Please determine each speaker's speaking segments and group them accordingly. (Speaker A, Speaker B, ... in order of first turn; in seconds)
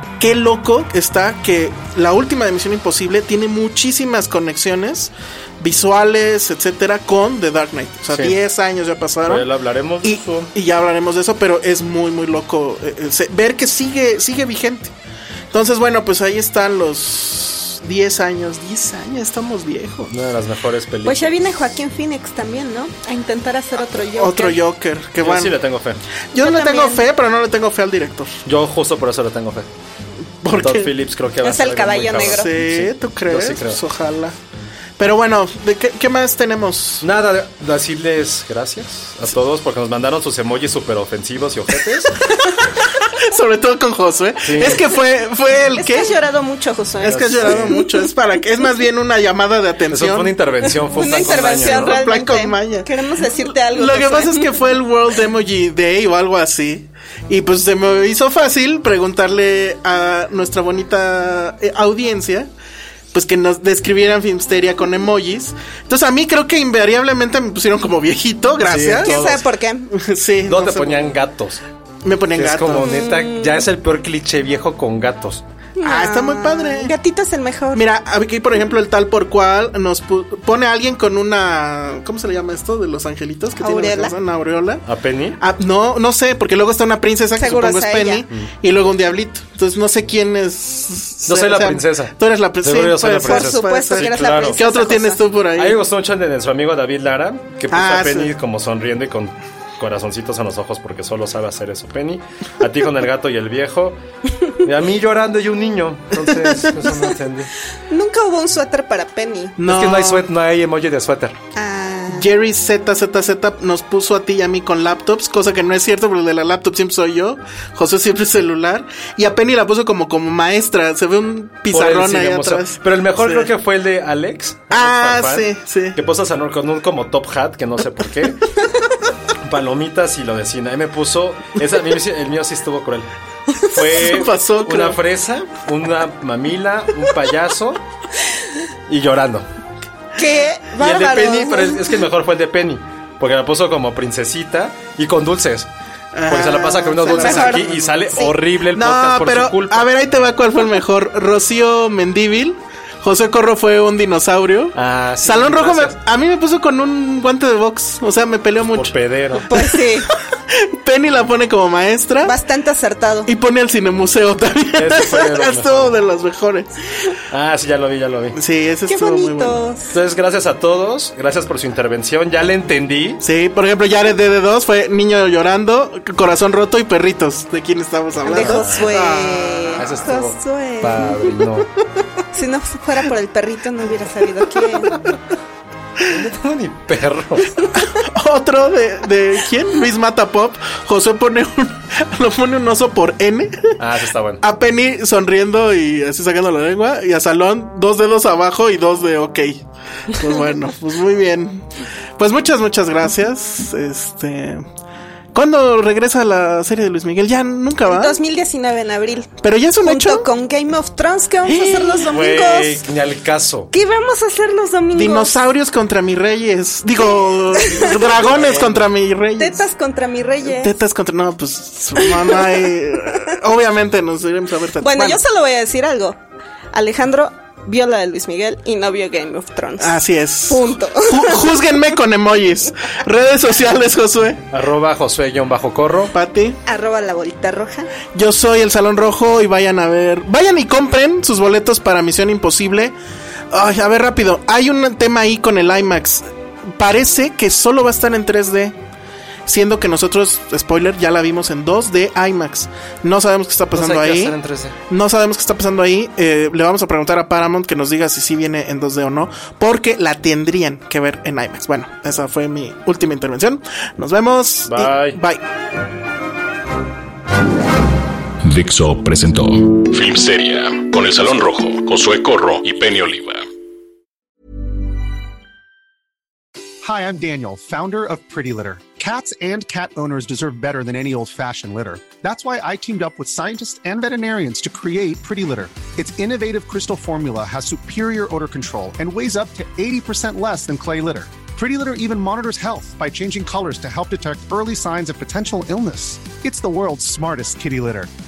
Speaker A: 0.2-9.4, 10.0-14.9, 15.5-20.1, 24.1-25.6, 26.3-28.3, 30.4-30.9, 32.2-34.4, 35.0-37.0, 42.2-46.2, 47.0-52.9, 53.6-62.5, 63.1-71.1, 72.0-73.0, 75.8-76.9, 77.7-84.8, 85.4-95.8, 97.7-98.3, 106.2-106.7, 109.6-110.2, 112.1-123.5, 124.7-126.0, 133.9-135.0, 146.1-147.9, 148.7-158.9, 159.5-162.4, 163.3-166.8, 168.3-169.6, 173.2-179.8, 188.0-193.7, 194.4-204.6, 205.3-208.2, 209.4-210.3, 211.5-212.1, 214.9-219.6, 220.4-225.2, 229.8-234.4, 236.1-236.6, 238.1-242.9, 243.5-248.8, 249.5-254.3, 254.9-265.4
Speaker B: 9.3-10.5, 20.1-21.3, 25.2-26.0, 28.5-29.7, 30.5-33.8, 37.0-42.2, 44.4-44.8, 47.0-47.8, 49.9-52.0, 68.6-69.2, 70.5-71.6, 72.3-75.4, 84.9-85.4, 91.3-94.6, 95.6-104.0, 104.6-107.5, 109.7-111.4, 121.7-128.5, 129.4-133.1, 133.7-137.8, 138.9-139.5, 140.8-145.7, 146.3-149.9, 154.8-156.0, 158.7-159.5, 164.8-165.9, 167.3-168.4, 169.9-173.2, 178.3-178.9, 179.8-181.7, 186.1-187.6, 193.8-194.4, 212.0-213.7, 218.2-218.8, 234.5-236.1, 253.7-254.8, 264.7-265.2
Speaker C: 21.0-24.6, 26.4-27.1, 31.4-32.5, 45.8-48.1, 50.9-54.6, 69.0-69.9, 72.8-73.6, 75.8-77.8, 83.6-84.2, 87.4-88.3, 93.1-95.2, 107.9-109.6, 111.5-112.3, 140.2-141.9, 147.1-148.3, 159.5-160.1, 162.2-163.3, 168.9-169.9, 178.2-181.4, 182.3-185.0, 207.8-212.8, 213.7-215.3, 217.6-218.1, 219.4-220.8, 222.0-222.5, 224.8-226.2, 226.7-231.4, 236.7-237.9
Speaker D: 268.4-273.5
Speaker E: 276.8-298.1